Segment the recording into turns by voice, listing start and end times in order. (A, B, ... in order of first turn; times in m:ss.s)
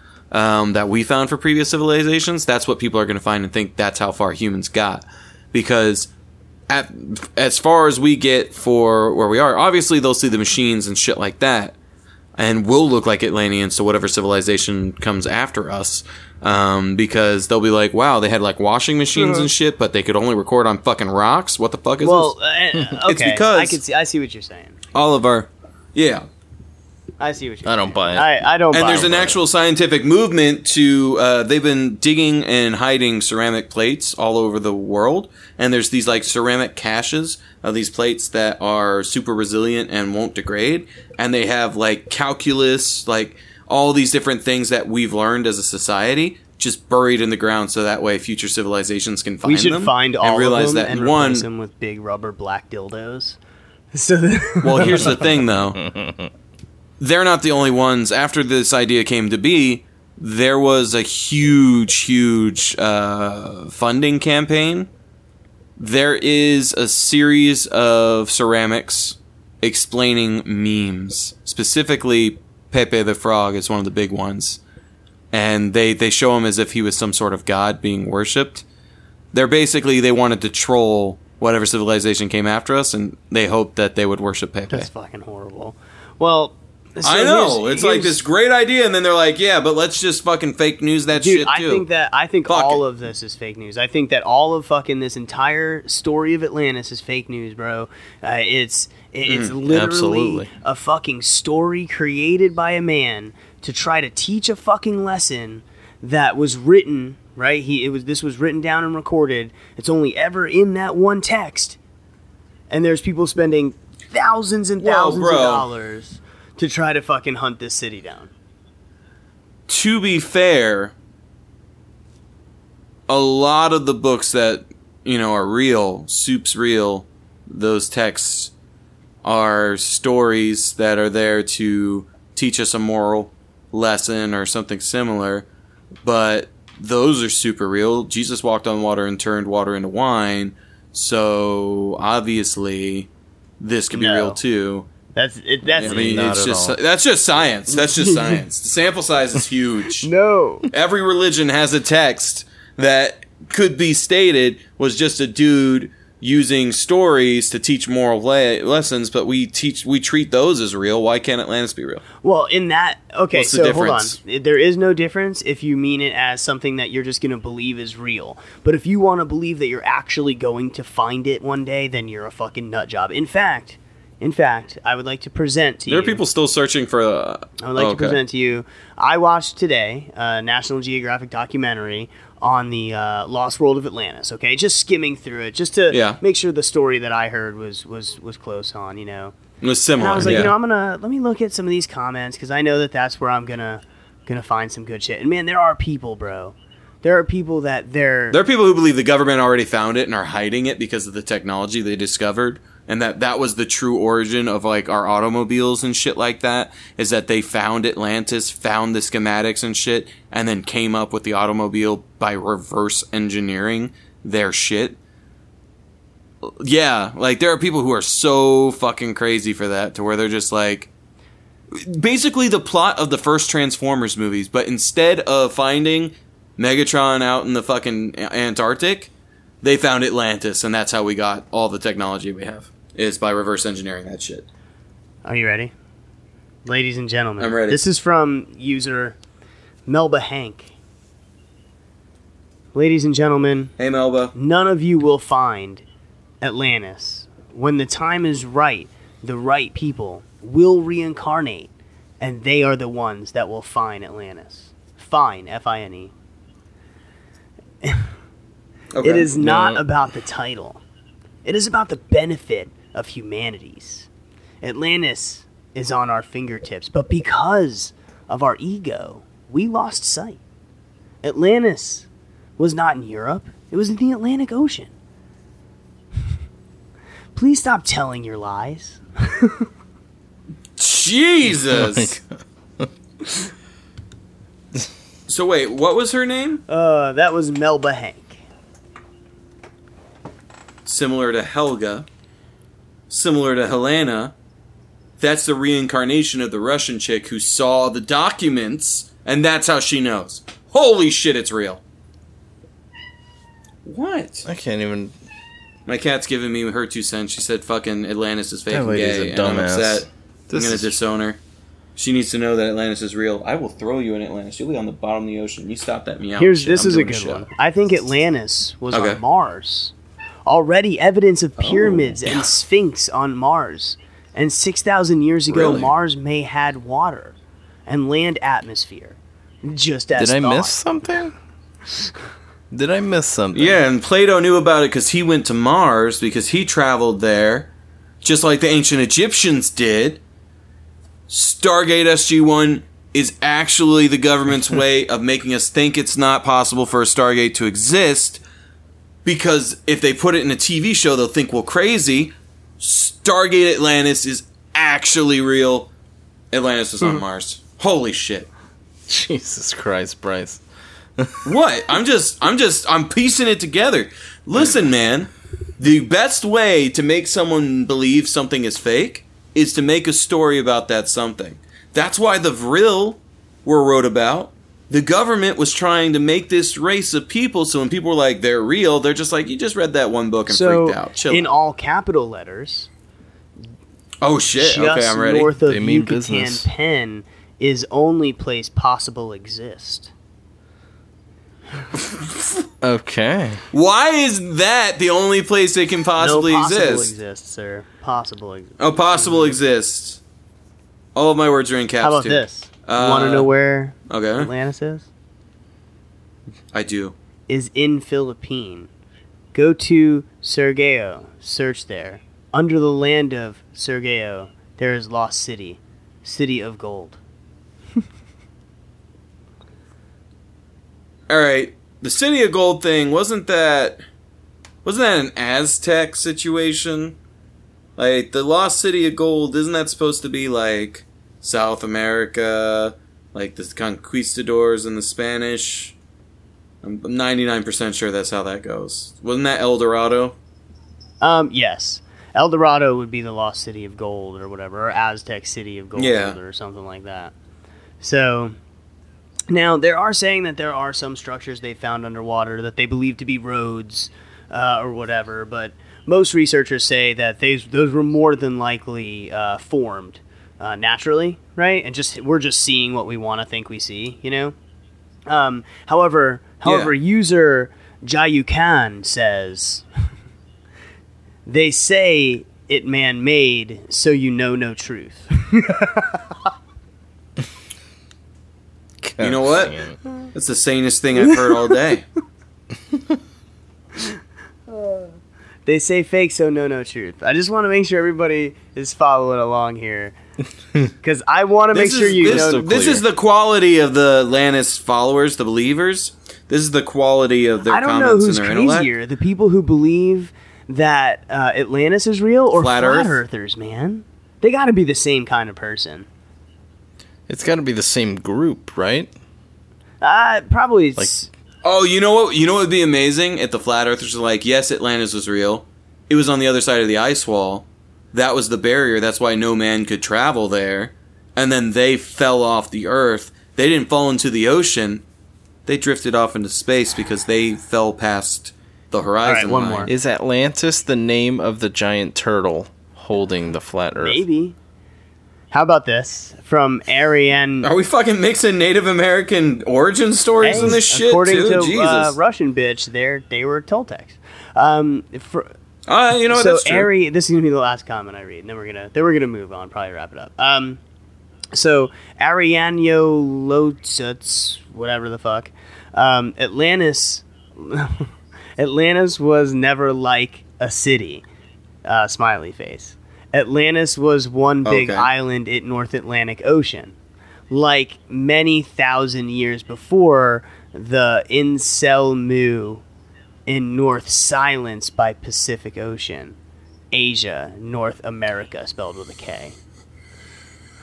0:00.3-0:06.1 A
0:06.7-0:11.8 A
0:12.4-0:22.4 A
0:19.2-0:19.5 B
0:22.0-0:24.8 B
0:23.0-0:23.8 A
0:24.9-0:26.3 A
0:27.2-0:29.3 B
0:27.6-0:28.3 C
0:28.7-0:51.5 A
0:28.8-0:29.4 C
0:49.4-0:53.4 B
0:53.9-0:55.3 B
0:54.6-0:55.8 A
0:55.8-0:56.3 C
0:57.0-1:04.9 A
1:05.8-1:14.6 A
1:15.3-1:18.6 A
1:19.3-1:24.9 A
1:24.7-1:28.2 B
1:27.0-1:31.9 A
1:31.1-1:51.8 B
1:32.5-1:32.8 A
1:39.3-1:39.5 A
1:39.7-1:40.5 C
1:52.7-1:58.3 B
1:54.8-1:55.7 A
1:59.7-2:00.9 A
2:03.1-2:08.5 A
2:09.2-2:15.5 A
2:16.0-2:23.1 A
2:23.6-2:24.9 A
2:23.9-2:24.4 B
2:25.2-2:26.2 B
2:25.8-2:30.1 A
2:25.8-2:26.8 C
2:27.7-2:28.4 B
2:30.0-2:30.7 B
2:30.7-2:42.0 A
2:42.2-2:56.2 B
2:43.3-2:44.2 A
2:55.9-2:58.2 A
2:57.6-3:09.3 B
3:05.9-3:06.2 A
3:09.6-3:10.6 A
3:10.0-3:18.4 B
3:18.3-3:35.0 A
3:36.4-3:40.9 A
3:41.7-3:49.1 A
3:49.6-3:54.5 A
3:55.2-3:55.7 B
3:56.6-3:59.2 B
3:57.4-3:57.8 A
3:59.9-4:00.7 B
4:02.7-4:03.7 B
4:03.8-4:04.3 A
4:04.4-4:05.8 B
4:06.4-4:16.1 B
4:17.8-4:18.1 B
4:18.9-4:19.7 A
4:19.0-4:20.8 B
4:21.4-4:24.1 B
4:24.6-4:30.4 B
4:31.2-4:32.1 B
4:32.6-4:34.9 B
4:37.4-4:39.7 B
4:40.8-4:42.2 A
4:41.5-4:42.3 C
4:45.3-4:46.6 A
4:46.7-4:48.4 B
4:50.9-4:52.1 A
4:53.1-4:54.3 A
4:55.2-5:01.8 A
5:03.8-5:04.5 A
5:04.5-5:05.1 C
5:05.9-5:11.4 A
5:08.7-5:10.9 C
5:12.0-5:17.5 A
5:16.4-5:19.9 B
5:18.9-5:19.2 A
5:20.5-5:27.4 B
5:21.6-5:22.4 A
5:25.5-5:25.9 A
5:27.9-5:30.8 B
5:30.2-5:31.3 C
5:32.7-5:33.8 C
5:33.5-5:37.7 A
5:38.2-5:40.2 A
5:41.3-5:48.4 A
5:49.2-5:55.9 A
5:56.5-5:58.5 A
5:59.1-6:00.6 C
6:01.2-6:01.5 C
6:01.4-6:21.5 A
6:20.5-6:22.9 B
6:24.2-6:25.5 A
6:24.6-6:30.1 B
6:25.6-6:26.7 C
6:32.0-6:32.6 A
6:32.8-6:33.6 C
6:33.7-6:37.1 A
6:36.2-6:39.6 B
6:38.8-6:40.2 A
6:41.2-6:43.5 A
6:42.0-6:45.1 B
6:44.1-6:44.5 A
6:46.7-6:47.2 A
6:47.5-6:48.9 B
6:49.5-6:57.2 B
7:01.3-7:04.0 A
7:04.8-7:07.2 A
7:08.0-7:16.0 A
7:16.8-7:20.4 A
7:21.2-7:27.3 B
7:26.0-7:26.4 A
7:28.0-7:28.6 B
7:29.5-7:44.5 B
7:45.3-7:49.8 B
7:46.6-7:46.9 A
7:51.5-7:56.2 B
7:59.0-8:00.0 C
7:59.2-7:59.8 A
8:00.3-8:02.0 A
8:04.0-8:10.2 B
8:11.0-8:12.7 B
8:11.7-8:18.9 A
8:12.2-8:13.0 C
8:17.7-8:26.1 B
8:22.6-8:23.2 A
8:27.3-8:29.1 C
8:30.0-8:31.3 B
8:31.6-8:45.0 A
8:45.7-8:49.9 A
8:49.2-8:49.9 B
8:49.9-8:54.2 C
8:54.0-8:54.6 B
8:55.5-8:57.7 B
8:57.6-9:02.2 A
9:00.4-9:05.5 B
9:05.9-9:06.9 A
9:06.3-9:10.8 B
9:11.5-9:21.2 B
9:21.8-9:27.0 B
9:24.6-9:25.1 A
9:27.5-9:32.8 B
9:33.5-9:36.4 B
9:36.9-9:39.6 B